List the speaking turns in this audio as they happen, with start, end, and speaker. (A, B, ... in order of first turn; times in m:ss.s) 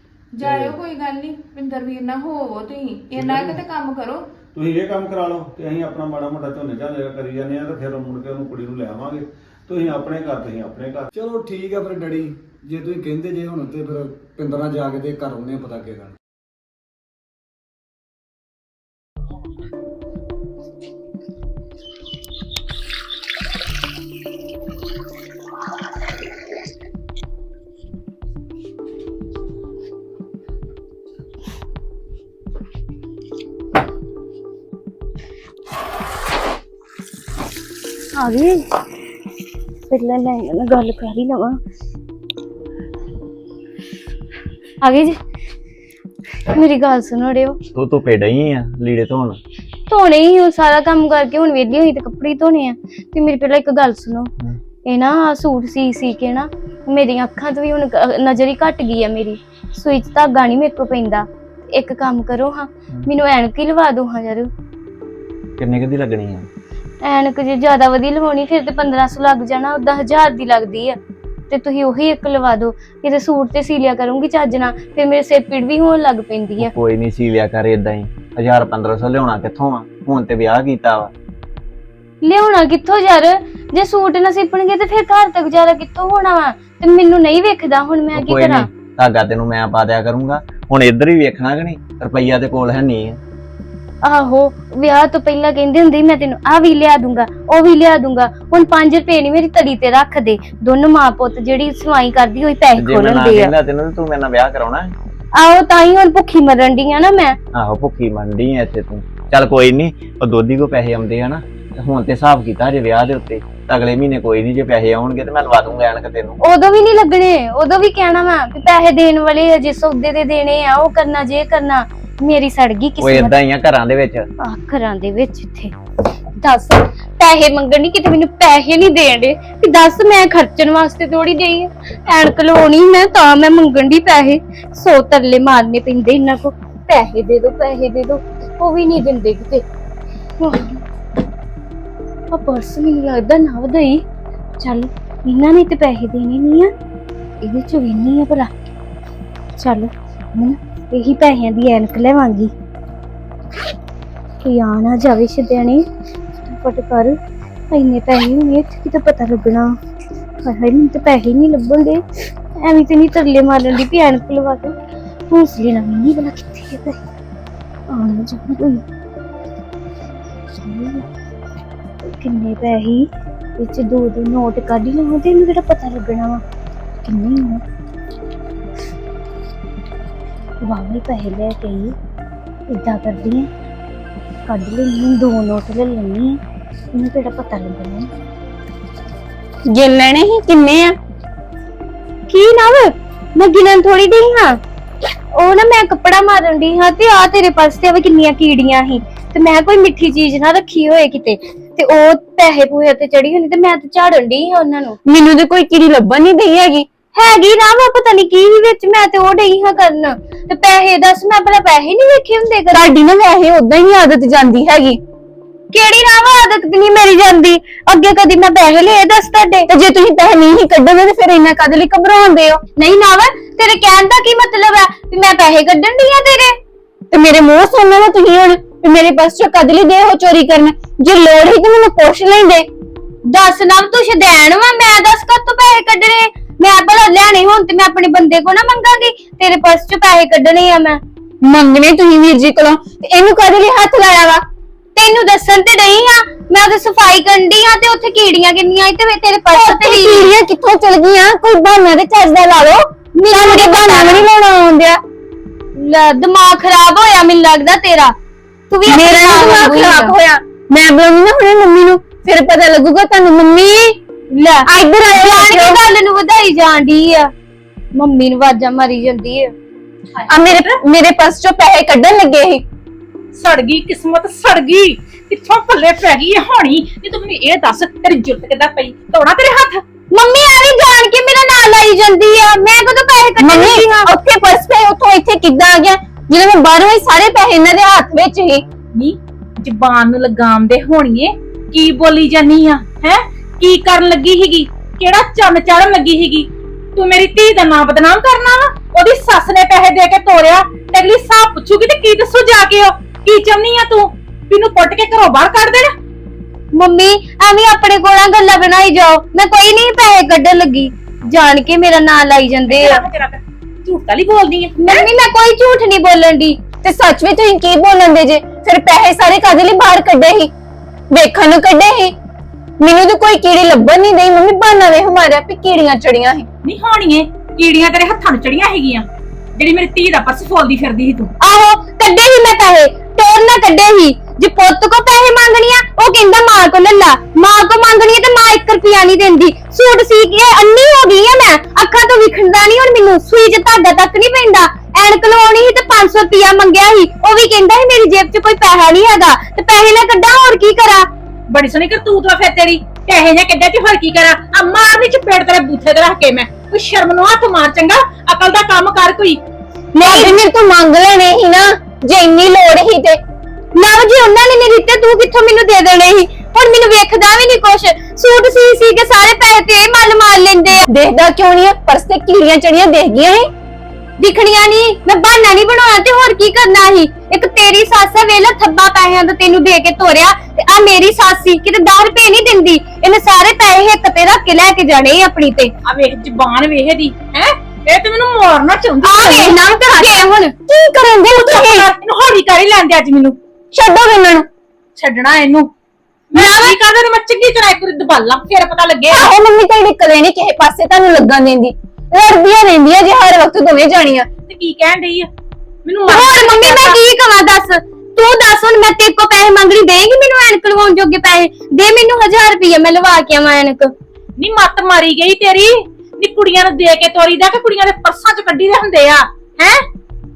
0:00.3-0:04.2 A
0:00.4-0:00.7 B
0:03.2-0:03.6 B
0:04.5-0:11.1 B
0:11.1-0:16.1 C
0:38.2-0:38.6 D
0:39.9-0:41.6 D
0:44.8-0:45.2 D
0:46.5-0:47.6 D
0:47.7-0:49.4 E
0:49.9-0:54.3 D
0:54.8-1:04.5 D
1:05.6-1:06.5 E
1:07.0-1:11.0 D
1:11.5-1:16.7 D
1:16.6-1:21.1 E
1:22.2-1:28.7 D
1:28.1-1:33.2 E
1:34.0-1:43.5 D
1:42.8-1:44.9 E
1:45.4-1:47.4 D
1:47.5-1:56.4 E
1:56.4-2:03.3 D
2:03.0-2:04.3 E
2:04.4-2:05.7 D
2:06.4-2:19.6 D
2:20.4-2:20.8 D
2:22.3-2:24.0 D
2:24.6-2:26.7 D
2:27.4-2:28.5 D
2:29.6-2:32.5 D
2:34.4-2:35.8 D
2:36.4-2:37.1 D
2:37.7-2:39.7 D
2:40.4-2:42.0 D
2:42.6-2:44.8 D
2:45.3-2:47.0 D
2:47.9-2:48.8 D
2:50.6-2:51.0 D
2:52.0-2:53.0 D
2:53.6-2:56.4 D
2:57.0-2:57.6 D
3:00.6-3:01.9 D
3:02.7-3:03.5 D
3:04.5-3:06.4 D
3:06.9-3:08.1 D
3:09.7-3:10.9 F
3:12.3-3:14.6 D
3:15.3-3:25.0 D
3:25.1-3:26.9 F
3:27.1-3:32.9 D
3:32.7-3:35.0 F
3:35.7-3:39.7 D
3:39.7-3:42.6 F
3:42.8-3:46.6 D
3:47.1-3:52.7 F
3:53.3-4:01.0 D
4:01.4-4:04.4 F
4:05.0-4:10.3 D
4:09.5-4:15.0 F
4:13.2-4:14.2 D
4:15.8-4:18.1 D
4:18.7-4:20.2 D
4:18.8-4:24.0 F
4:24.3-4:27.3 D
4:24.7-4:25.8 F
4:27.9-4:29.5 D
4:30.2-4:30.8 G
4:30.3-4:32.6 F
4:33.3-4:39.8 G
4:40.1-4:44.1 D
4:43.4-4:48.6 F
4:49.0-5:05.9 G
5:06.7-5:13.0 D
5:12.7-5:15.0 G
5:14.8-5:16.6 D
5:16.8-5:20.5 F
5:21.1-5:22.1 F
5:22.8-5:26.4 F
5:26.6-5:31.3 G
5:31.4-5:51.1 D
5:51.5-5:59.4 G
5:59.9-6:00.3 D
6:00.0-6:03.2 F
6:03.7-6:10.8 D
6:10.9-6:13.5 F
6:14.2-6:25.7 D
6:25.8-6:29.6 G
6:29.0-6:30.5 D
6:30.7-6:31.8 F
6:31.5-6:33.4 G
6:33.7-6:34.4 F
6:35.0-6:35.7 G
6:36.3-6:39.3 G
6:39.1-6:44.3 F
6:44.5-6:45.3 G
6:45.8-6:47.0 G
6:46.1-6:53.9 D
6:54.4-6:59.8 G